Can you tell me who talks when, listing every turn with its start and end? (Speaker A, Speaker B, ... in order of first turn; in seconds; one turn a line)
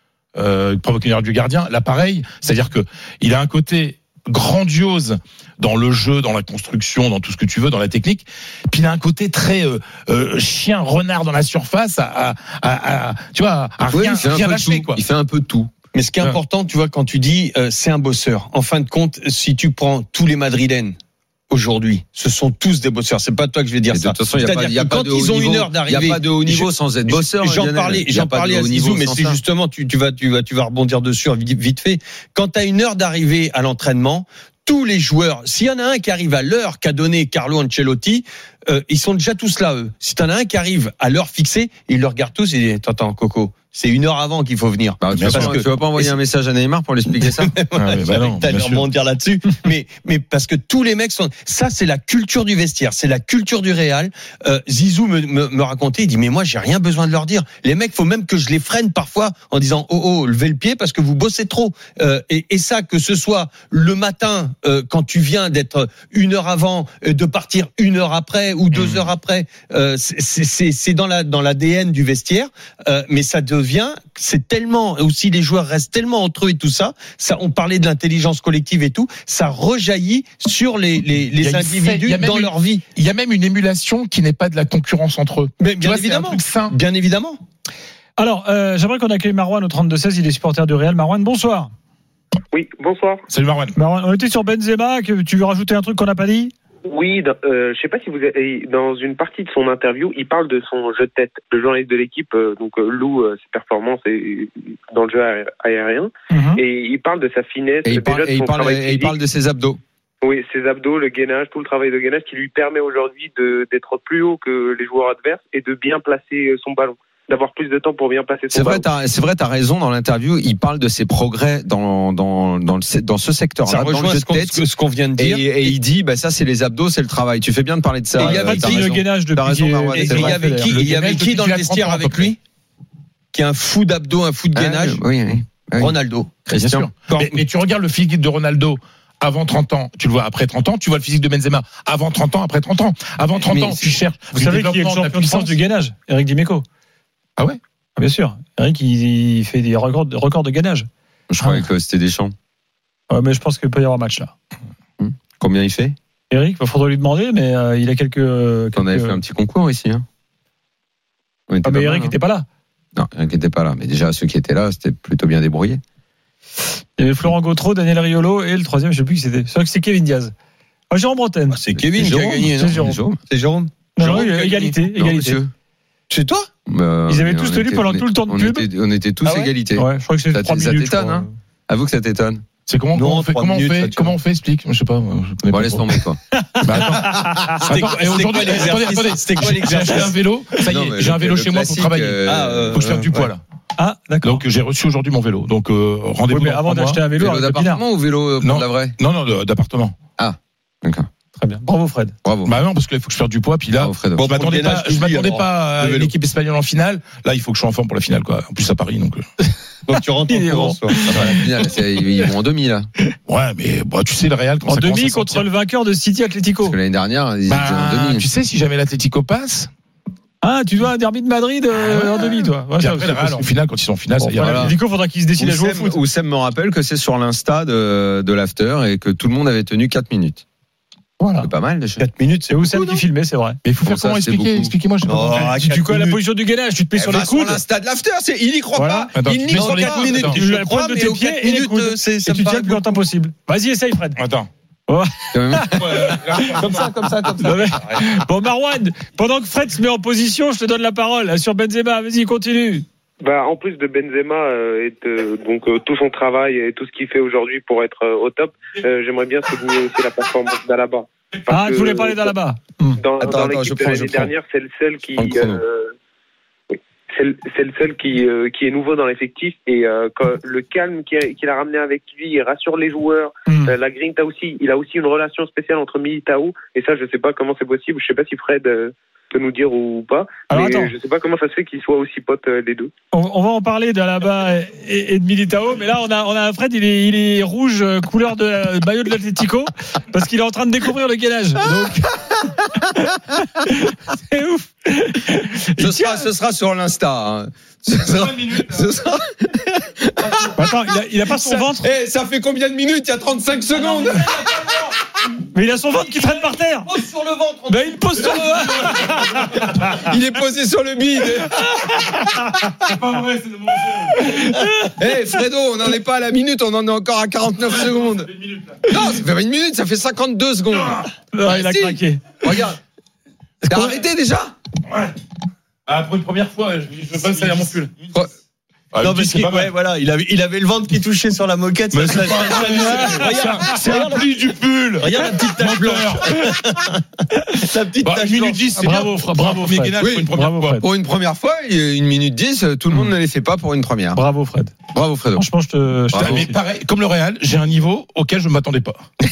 Speaker A: 0.3-15.0
Speaker B: 13.9-15.7
Speaker C: 15.9-20.9
Speaker C: 21.5-46.2
Speaker B: 23.9-29.4
Speaker B: 45.0-47.5
Speaker A: 45.1-45.6
Speaker C: 47.1-82.8
Speaker A: 47.8-48.9
Speaker A: 68.7-69.1
Speaker A: 81.4-86.8
Speaker C: 85.6-87.4
Speaker D: 88.2-91.7
Speaker E: 92.5-93.2
Speaker A: 93.3-93.7
Speaker D: 93.7-96.5
Speaker E: 96.9-109.2
Speaker D: 106.3-106.6
Speaker B: 107.8-109.8
Speaker E: 110.2-118.8
Speaker B: 118.5-124.6
Speaker C: 123.7-125.8
Speaker B: 125.2-130.6
Speaker D: 128.2-130.8
Speaker C: 128.2-128.9
Speaker C: 129.9-132.4
Speaker A: 130.7-132.3
Speaker C: 133.3-135.0
Speaker B: 134.5-135.9
Speaker C: 135.8-136.4
Speaker B: 136.5-136.9
Speaker A: 136.5-145.5
Speaker C: 137.1-137.4
Speaker B: 143.4-144.0
Speaker D: 144.3-146.6
Speaker D: 148.0-150.9
Speaker B: 151.3-152.3
Speaker D: 151.4-151.7
Speaker D: 153.1-154.3
Speaker B: 155.0-155.9
Speaker D: 156.3-159.2
Speaker B: 158.7-160.0
Speaker B: 161.5-162.2
Speaker D: 161.6-162.4
Speaker B: 162.9-165.8
Speaker D: 167.0-170.3
Speaker D: 170.9-171.6
Speaker C: 171.5-172.7
Speaker B: 171.7-173.2
Speaker D: 172.6-173.0
Speaker C: 173.3-174.7
Speaker D: 173.9-175.4
Speaker B: 174.9-175.5
Speaker C: 176.1-176.5
Speaker B: 176.7-182.4
Speaker D: 177.1-178.7
Speaker C: 179.2-179.5
Speaker D: 179.7-181.3
Speaker A: 182.7-185.8
Speaker C: 182.9-184.1
Speaker B: 185.5-186.2
Speaker D: 186.3-187.3
Speaker A: 186.6-192.2
Speaker B: 186.9-187.7
Speaker C: 187.7-190.2
Speaker B: 190.6-193.1
Speaker C: 192.2-193.3
Speaker A: 192.7-193.4
Speaker D: 193.8-194.4
Speaker A: 194.2-197.0
Speaker D: 196.3-197.8
Speaker B: 197.2-198.9
Speaker A: 198.4-200.0
Speaker B: 200.2-201.1
Speaker D: 201.3-202.1
Speaker B: 202.2-202.5
Speaker A: 202.4-209.2
Speaker B: 203.8-204.3
Speaker C: 204.2-206.1
Speaker C: 209.9-211.1
Speaker D: 210.3-211.4
Speaker B: 211.1-212.9
Speaker A: 213.3-215.4
Speaker D: 214.7-216.8
Speaker B: 216.6-218.2
Speaker A: 217.5-219.7
Speaker D: 220.4-223.5
Speaker A: 221.8-222.2
Speaker A: 222.8-224.7
Speaker D: 224.2-226.0
Speaker B: 224.4-224.8
Speaker B: 225.4-230.4
Speaker D: 231.2-231.5
Speaker B: 231.4-232.0
Speaker C: 232.0-232.7
Speaker D: 232.5-233.6
Speaker A: 233.6-235.7
Speaker B: 233.8-234.7
Speaker C: 235.0-236.2
Speaker D: 235.6-237.6
Speaker B: 236.9-240.3
Speaker D: 238.7-239.1
Speaker A: 239.2-240.4
Speaker C: 239.5-243.0
Speaker D: 240.3-244.2
Speaker A: 244.2-244.5
Speaker D: 244.9-246.7
Speaker B: 245.3-247.6
Speaker A: 245.7-246.8
Speaker C: 246.6-247.7
Speaker D: 247.4-252.8
Speaker E: 253.2-262.3
Speaker D: 261.5-263.0
Speaker E: 263.0-265.9
Speaker B: 263.2-264.3
Speaker B: 265.1-265.6
Speaker E: 266.7-282.9
Speaker D: 273.5-273.7
Speaker D: 280.5-280.9
Speaker D: 283.1-296.2
Speaker B: 295.8-304.9
Speaker D: 300.6-301.9
Speaker D: 305.5-306.9
Speaker C: 306.8-307.8
Speaker D: 307.7-310.1
Speaker B: 308.2-312.7
Speaker D: 311.8-312.5
Speaker D: 314.0-315.1
Speaker B: 315.0-318.3
Speaker B: 318.9-322.8
Speaker D: 321.3-322.2
Speaker D: 323.6-324.0
Speaker B: 323.7-324.5
Speaker A: 325.9-327.9
Speaker D: 327.2-327.9
Speaker A: 328.9-329.7
Speaker C: 329.0-334.3
Speaker A: 331.9-336.5
Speaker D: 332.8-333.3
Speaker C: 335.0-338.8
Speaker A: 338.0-340.8
Speaker D: 338.7-340.8
Speaker B: 340.0-344.2
Speaker D: 344.1-344.7
Speaker B: 344.9-345.5
Speaker D: 345.3-346.5
Speaker B: 346.1-346.5
Speaker A: 346.1-349.1